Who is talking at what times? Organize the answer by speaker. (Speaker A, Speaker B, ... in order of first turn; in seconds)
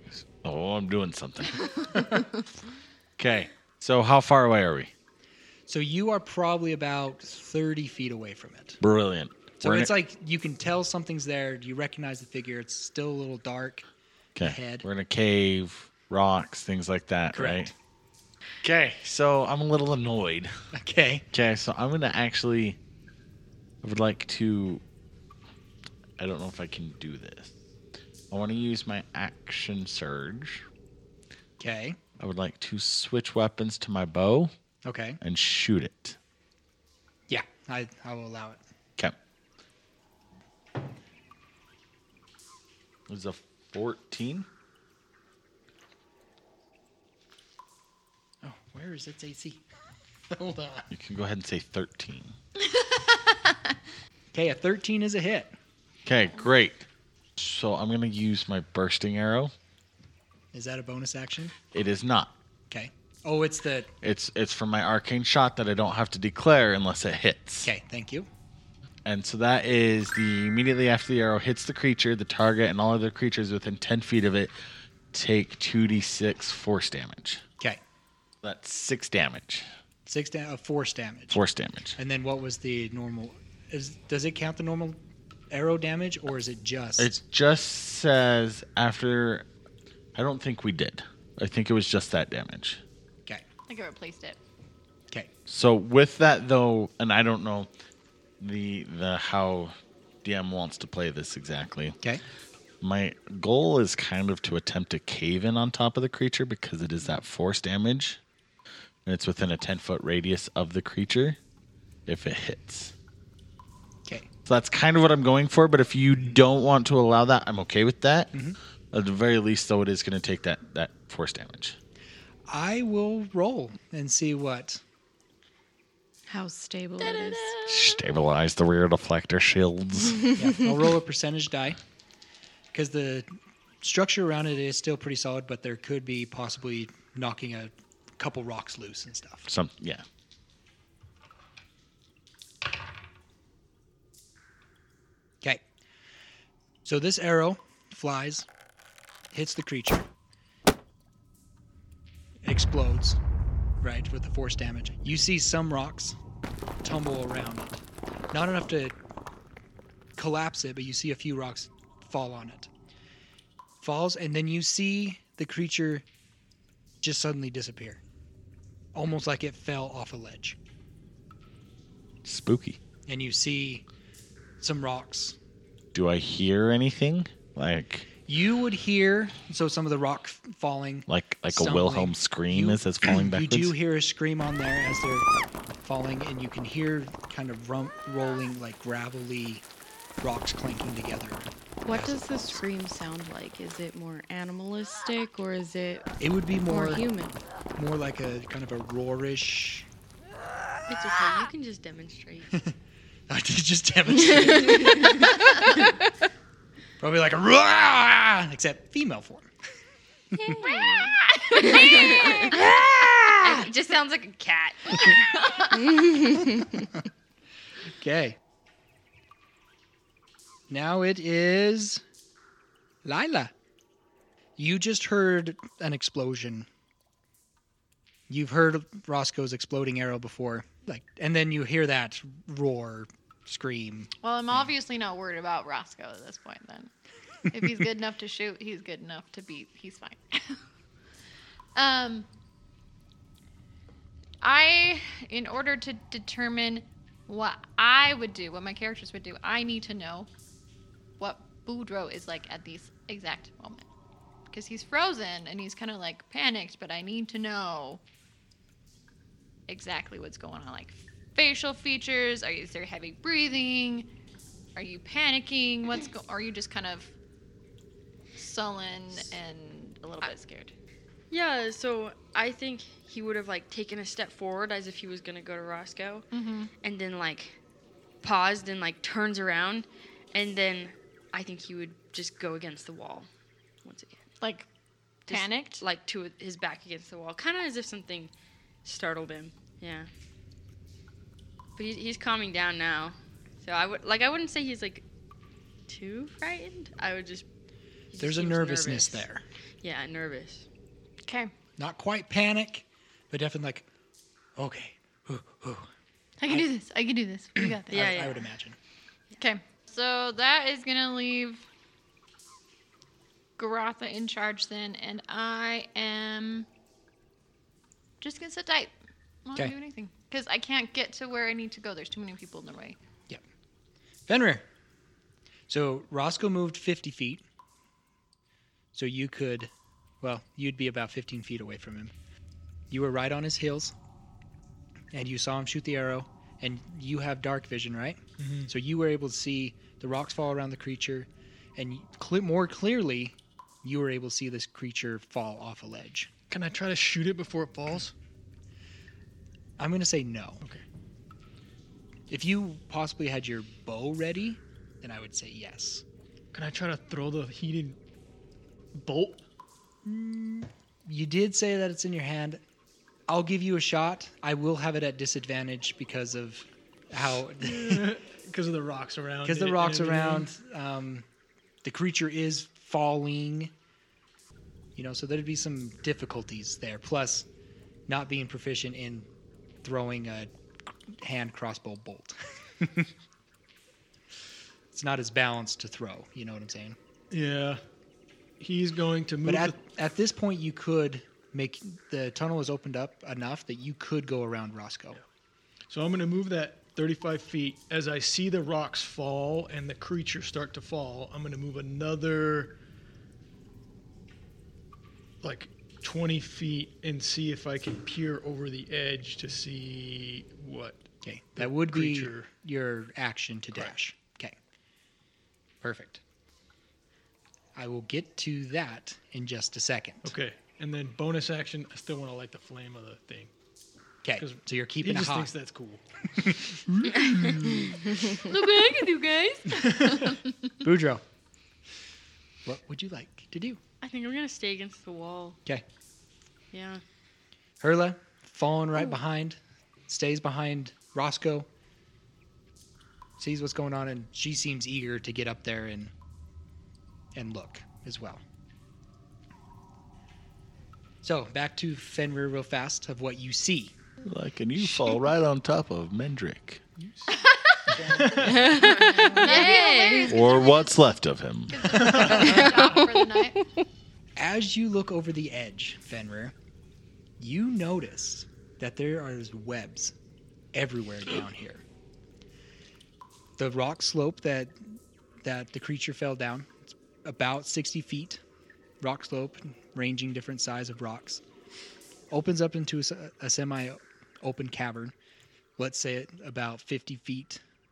Speaker A: 0.3-2.2, 3.2-4.9, 8.8-9.9, 14.4-17.7, 18.6-20.5, 21.3-22.8, 23.8-24.8, 26.2-27.5, 28.3-30.6, 32.2-34.5, 35.2-36.2, 43.1-44.5, 50.9-52.3, 56.0-56.9, 57.4-59.5, 61.7-62.3, 64.0-67.7, 69.0-74.5, 75.1-77.4, 78.4-79.7, 81.3-82.0, 87.0-89.5, 90.1-92.8, 95.5-97.7, 98.4-102.0, 102.8-108.2, 109.0-111.4, 112.1-112.9, 114.5-118.3, 118.9-121.8, 127.7-130.3, 139.5-140.0, 172.2-172.8, 175.9-178.1, 181.1-183.7, 454.2-456.8, 460.3-462.0
Speaker B: 5.7-8.8, 9.6-13.8, 14.4-14.8, 17.3-17.7, 20.7-21.3, 31.6-32.0, 34.8-35.2, 37.3-38.6, 48.4-49.6, 50.3-50.9, 54.3-55.5, 60.5-61.5, 62.7-63.9, 67.6-68.3, 80.0-81.4, 82.0-85.0, 85.5-87.1, 122.5-124.8, 130.3-131.8, 132.7-133.3, 133.8-139.5, 146.8-148.5, 149.3-150.1, 152.4-153.2, 153.8-156.2, 156.8-158.9, 160.2-162.7, 163.8-166.0, 167.0-168.0, 168.9-170.6, 173.1-173.8, 174.6-175.4, 178.2-185.3, 185.8-189.6, 190.2-192.6, 196.2-197.1, 197.8-199.9, 203.3-205.3, 207.0-209.5, 212.5-213.7, 218.0-218.4, 220.7-222.0, 223.0-223.5, 224.6-226.7, 228.3-234.1, 298.2-299.4, 301.8-303.9, 304.6-305.9, 307.6-308.8, 324.3-324.6, 325.7-327.4, 328.9-332.1, 332.9-333.9, 335.1-346.3, 349.8-350.6, 352.3-356.0, 360.0-362.6, 363.3-368.1, 369.4-371.2, 371.8-373.7, 374.9-377.5, 378.1-379.3, 379.8-383.1, 384.9-387.0, 389.4-395.2, 411.2-414.6, 415.8-416.2, 417.7-420.3, 424.2-425.5, 426.4-428.1, 430.8-431.2, 432.6-433.8, 437.8-441.7, 443.4-446.1, 447.3-448.4, 451.2-454.0, 454.8-455.2, 458.0-458.4, 464.4-466.5, 467.4-470.1, 470.7-471.8, 473.6-478.4, 479.0-481.4, 482.3-485.1, 485.8-487.6
Speaker C: 52.6-53.7, 93.7-94.4, 127.1-127.6, 210.6-212.6, 213.5-215.9, 234.2-236.9, 237.5-240.6, 241.7-242.3, 244.4-250.3, 251.2-253.8, 254.5-258.0, 259.7-264.1, 264.8-267.1, 268.4-270.7, 276.3-276.7, 284.4-284.7, 285.2-285.8, 301.2-301.5, 306.4-308.3, 309.4-311.6, 313.6-316.7, 318.2-318.9, 319.4-323.0, 429.0-429.6, 457.4-457.7, 459.0-461.0, 461.7-463.6
Speaker D: 126.3-127.6, 191.8-196.1, 196.7-197.4, 210.7-211.0, 215.9-216.7, 458.4-460.2, 462.7-463.0
Speaker E: 200.9-202.5, 211.7-212.5, 271.3-276.2, 276.8-277.6, 278.2-283.3, 283.8-284.2, 285.3-288.3, 288.8-290.1, 291.8-295.0, 295.9-297.4, 298.1-299.2, 299.8-300.6, 307.9-308.4, 434.0-435.6, 436.7-437.0, 458.7-460.4
Speaker F: 338.4-338.7, 346.5-348.1, 356.5-358.0, 358.9-359.4, 367.6-370.5, 387.3-387.8, 388.6-389.8, 395.9-402.7, 405.4-412.5, 420.2-423.5, 424.4-426.0, 457.0-457.4, 457.9-458.7, 462.0-462.6